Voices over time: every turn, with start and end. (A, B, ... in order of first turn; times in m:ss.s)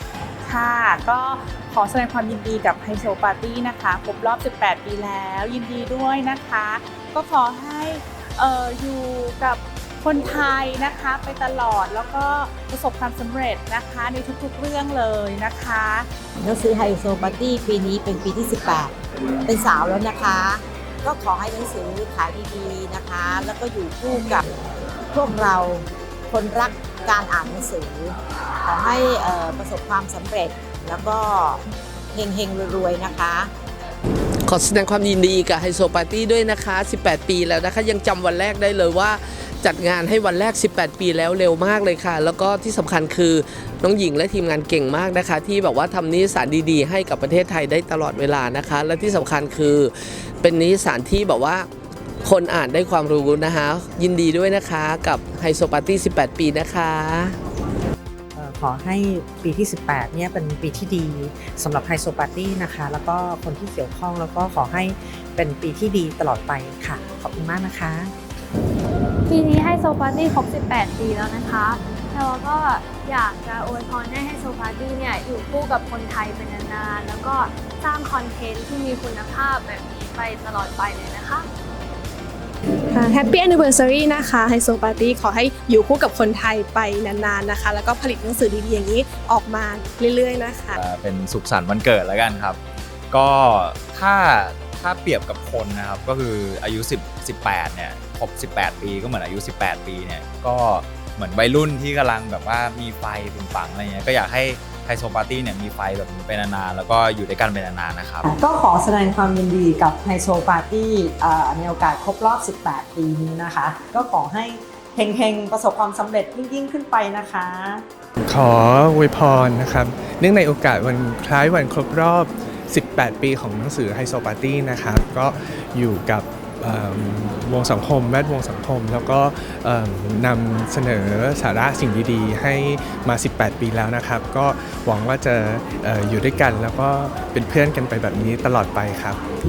0:00.4-0:16.1 A
0:16.4-0:18.9 B
0:19.4-0:24.5 B
0:25.1-0:33.5 B
0:34.5-0:49.9 C
0:50.4-0:51.7 C
0:52.2-0:57.4 C
0:58.3-1:08.1 D
1:09.3-1:21.4 E
1:22.9-1:30.8 F
1:30.8-1:32.6 G
1:33.1-1:48.2 G
1:48.2-1:57.8 H
1:58.3-2:19.2 I